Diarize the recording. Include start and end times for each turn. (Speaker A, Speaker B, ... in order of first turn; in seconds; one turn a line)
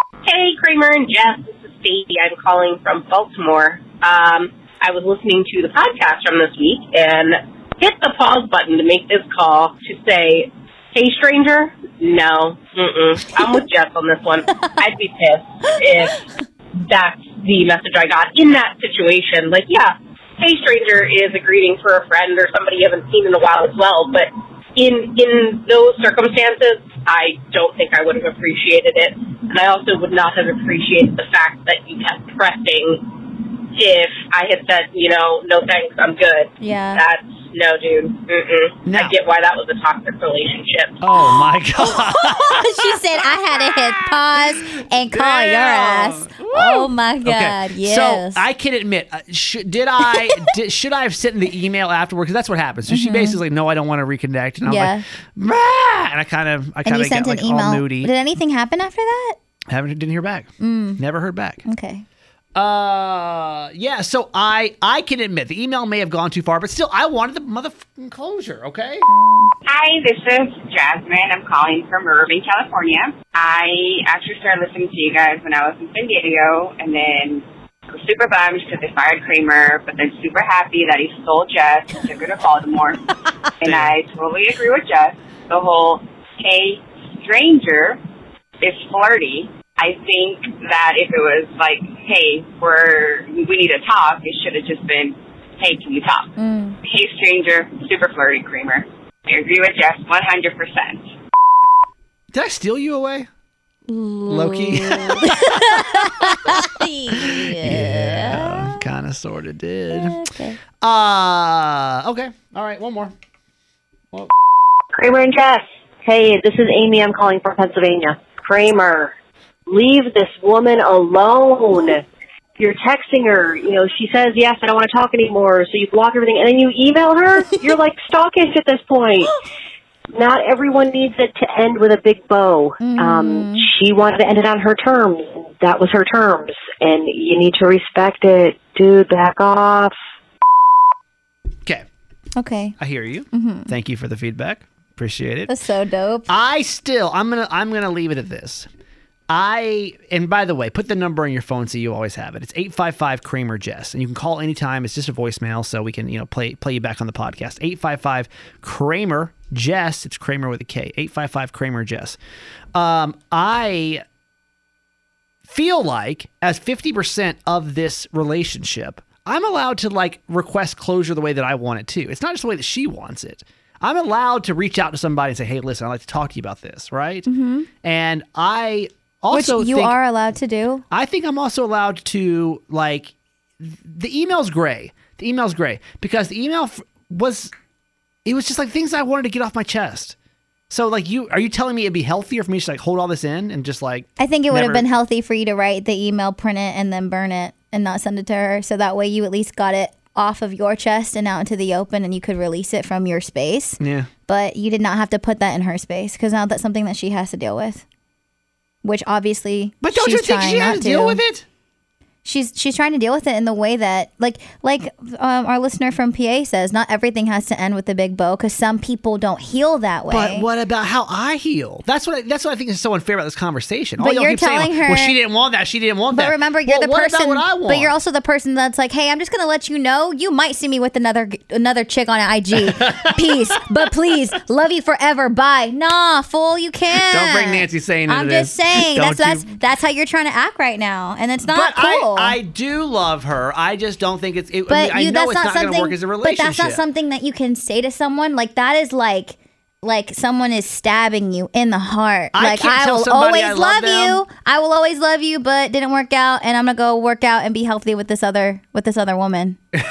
Speaker A: 0.2-41.0
Speaker B: 36.6-37.0
Speaker C: 38.9-39.2
Speaker C: 41.0-43.0
Speaker B: 41.8-48.4
Speaker C: 43.5-58.1
Speaker B: 50.0-50.5
Speaker B: 52.9-53.4
Speaker B: 54.7-55.0
Speaker B: 56.9-59.4
Speaker C: 59.7-61.6
Speaker B: 60.6-61.0
Speaker B: 61.7-62.0
Speaker C: 62.5-69.1
Speaker B: 69.1-69.5
Speaker D: 69.7-83.1
Speaker D: 83.6-88.0
Speaker C: 83.6-83.9
Speaker D: 88.6-101.1
Speaker B: 96.4-96.8
Speaker C: 102.3-103.3
Speaker B: 103.9-108.8
Speaker C: 104.3-110.2
Speaker B: 109.9-110.6
Speaker C: 110.8-113.1
Speaker E: 114.9-119.1
Speaker E: 119.7-122.0
Speaker E: 122.6-129.3
Speaker E: 130.1-140.0
Speaker B: 132.8-133.7
Speaker B: 142.4-142.8
Speaker C: 142.8-145.5
Speaker B: 143.3-143.7
Speaker B: 145.5-146.3
Speaker C: 146.3-148.7
Speaker C: 149.3-162.2
Speaker C: 162.8-164.0
Speaker C: 165.5-177.3
Speaker B: 177.3-177.7
Speaker C: 177.8-180.0
Speaker B: 179.3-180.8
Speaker C: 180.9-187.5
Speaker C: 188.2-190.2
Speaker C: 190.7-194.8
Speaker B: 194.2-207.8
Speaker C: 203.8-204.1
Speaker B: 208.8-211.2
Speaker C: 209.8-211.4
Speaker B: 212.2-220.5
Speaker C: 220.1-227.9
Speaker B: 224.0-225.2
Speaker B: 226.1-242.4
Speaker C: 232.6-233.6
Speaker C: 236.9-239.5
Speaker C: 241.5-246.8
Speaker B: 244.7-259.6
Speaker C: 252.3-254.2